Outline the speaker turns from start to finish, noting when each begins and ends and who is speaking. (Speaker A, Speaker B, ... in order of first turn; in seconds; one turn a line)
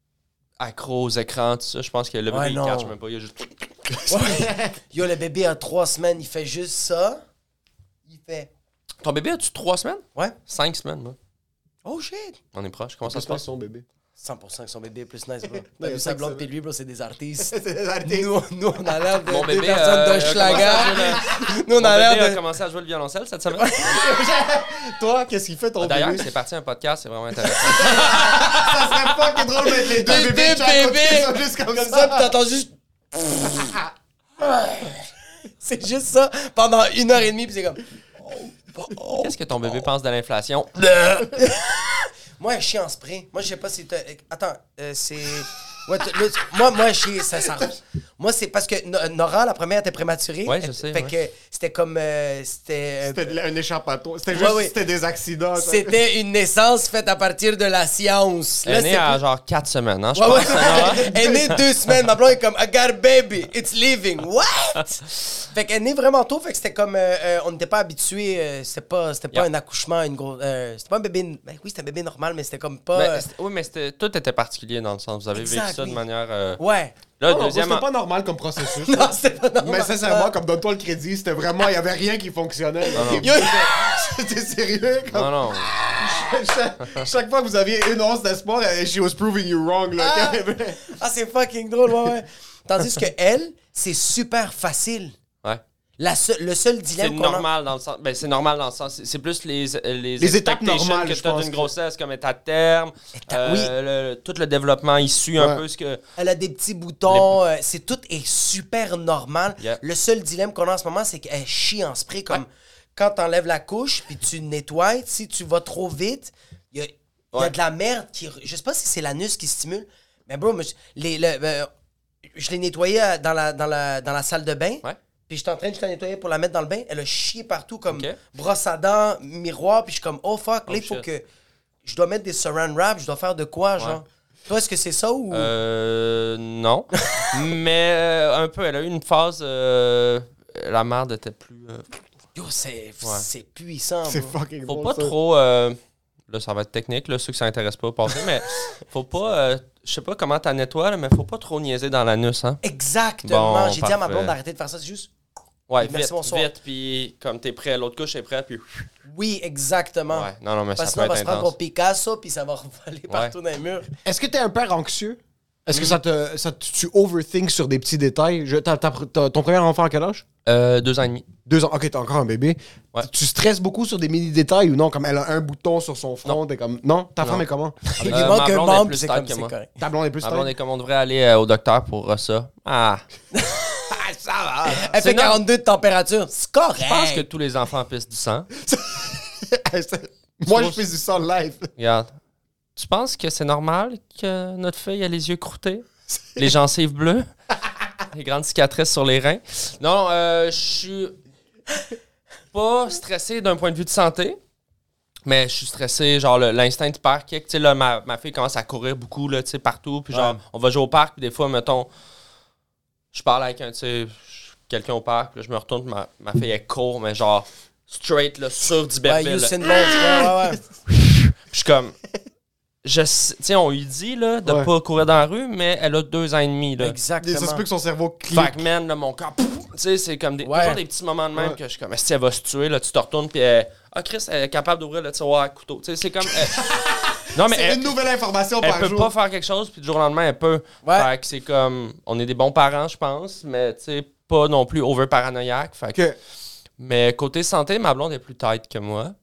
Speaker A: 0.6-3.6
Speaker B: 2.3-2.9
Speaker B: 4.1-7.2
Speaker C: 4.3-4.7
Speaker B: 8.1-8.5
Speaker A: 9.0-11.2
Speaker B: 11.8-12.4
Speaker A: 12.5-13.4
Speaker C: 13.1-13.8
Speaker B: 14.2-22.4
Speaker C: 15.5-16.4
Speaker C: 17.5-18.3
Speaker A: 19.2-24.0
Speaker C: 20.5-21.5
Speaker B: 23.5-24.0
Speaker C: 23.8-26.3
Speaker A: 25.8-29.0
Speaker C: 27.5-32.3
Speaker B: 27.8-28.7
Speaker B: 29.6-33.8
Speaker B: 34.4-35.1
Speaker B: 35.6-39.8
Speaker A: 39.2-41.2
Speaker B: 40.9-53.4
Speaker A: 50.5-51.1
Speaker C: 53.0-56.0
Speaker B: 54.3-54.7
Speaker B: 55.6-59.2
Speaker A: 58.6-61.1
Speaker B: 60.1-73.2
Speaker C: 60.3-61.6
Speaker A: 72.9-76.6
Speaker B: 75.3-76.0
Speaker B: 76.6-77.0
Speaker A: 77.2-77.8
Speaker C: 77.3-90.8
Speaker B: 78.6-80.3
Speaker A: 82.9-83.3
Speaker B: 83.0-83.9
Speaker A: 85.1-85.7
Speaker B: 90.0-95.1
Speaker B: 96.0-97.5
Speaker A: 97.0-106.0
Speaker C: 100.2-101.7
Speaker B: 103.1-103.7
Speaker C: 105.4-105.6
Speaker B: 106.2-121.7
Speaker A: 107.1-107.3
Speaker B: 122.3-131.2
Speaker A: 127.9-128.2
Speaker A: 130.7-131.0
Speaker B: 131.8-135.5
Speaker A: 135.3-141.9
Speaker B: 136.9-137.4
Speaker B: 142.3-144.3
Speaker C: 144.1-145.1
Speaker A: 144.7-152.6
Speaker B: 152.6-155.1
Speaker A: 153.2-154.3
Speaker A: 155.7-158.9
Speaker B: 155.8-156.5
Speaker B: 159.1-163.9
Speaker A: 160.1-161.5
Speaker C: 164.0-170.2
Speaker A: 170.4-171.3
Speaker C: 171.4-178.4
Speaker B: 177.9-179.7
Speaker A: 178.0-179.5
Speaker C: 179.8-180.5
Speaker A: 180.2-183.0
Speaker B: 183.3-183.9
Speaker C: 183.9-184.9
Speaker B: 184.7-187.2
Speaker A: 184.9-185.4
Speaker A: 186.8-188.5
Speaker C: 188.6-191.7
Speaker A: 190.5-190.8
Speaker A: 191.8-192.1
Speaker A: 192.8-197.3
Speaker A: 198.1-201.2
Speaker A: 202.5-204.4
Speaker A: 205.2-211.9
Speaker B: 210.1-210.4
Speaker A: 213.1-219.6
Speaker B: 219.0-220.6
Speaker C: 219.8-220.2
Speaker A: 221.5-221.9
Speaker A: 222.8-227.0
Speaker B: 226.8-227.6
Speaker C: 227.2-228.6
Speaker A: 228.3-236.7
Speaker B: 230.4-230.8
Speaker C: 236.3-239.1
Speaker A: 237.3-237.8
Speaker A: 238.6-246.0
Speaker B: 240.8-241.1
Speaker A: 246.8-249.1